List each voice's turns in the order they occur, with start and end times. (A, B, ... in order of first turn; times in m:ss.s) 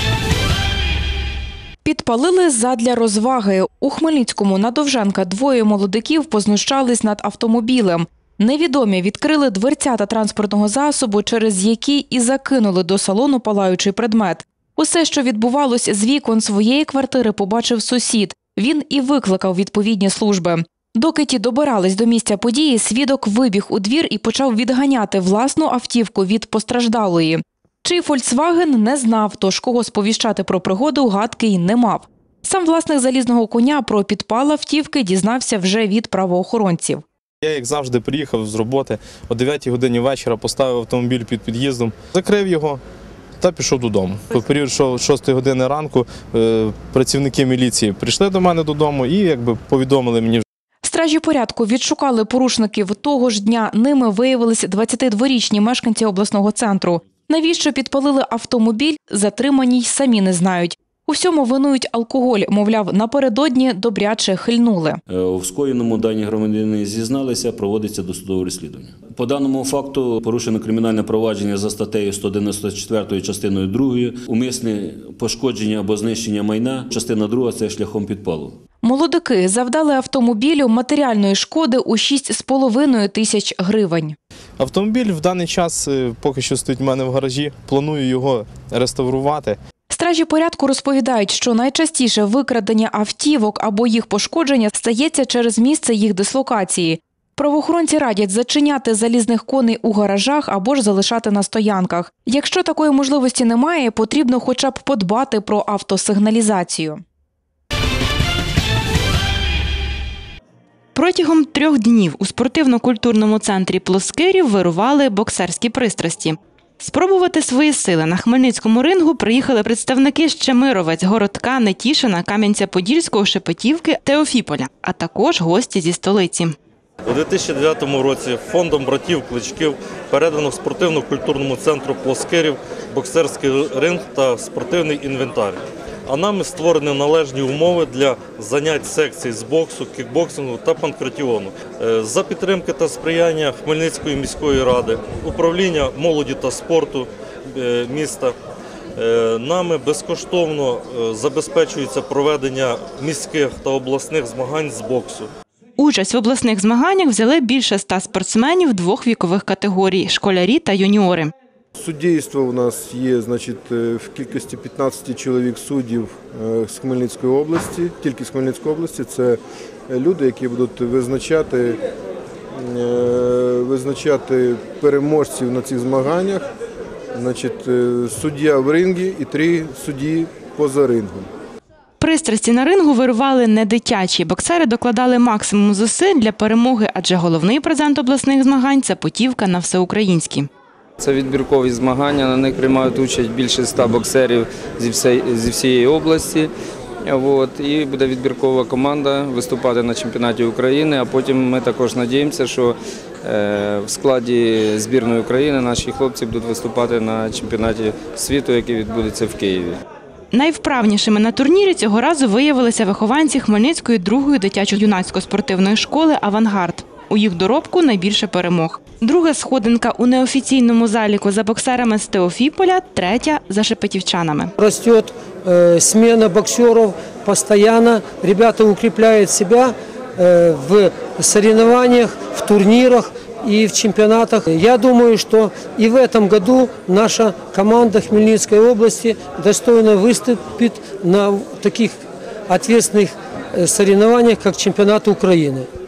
0:01.8-0:37.0 A
0:37.4-0:42.8 B
0:43.4-0:50.4 B
0:50.8-1:05.0 A
1:05.1-1:18.6 C
1:18.8-1:24.2 A
1:24.6-1:29.6 B
1:29.9-1:47.0 A
1:50.9-2:06.6 D
2:07.1-2:28.3 E
2:29.0-2:35.3 E
2:35.8-2:41.3 D
2:41.8-2:51.8 F
2:52.5-2:56.5 F
2:57.1-3:01.3 F
3:02.0-3:10.5 D
3:11.0-3:16.5 G
3:17.0-3:29.8 G
3:30.3-3:44.5 D
3:44.6-4:05.7 H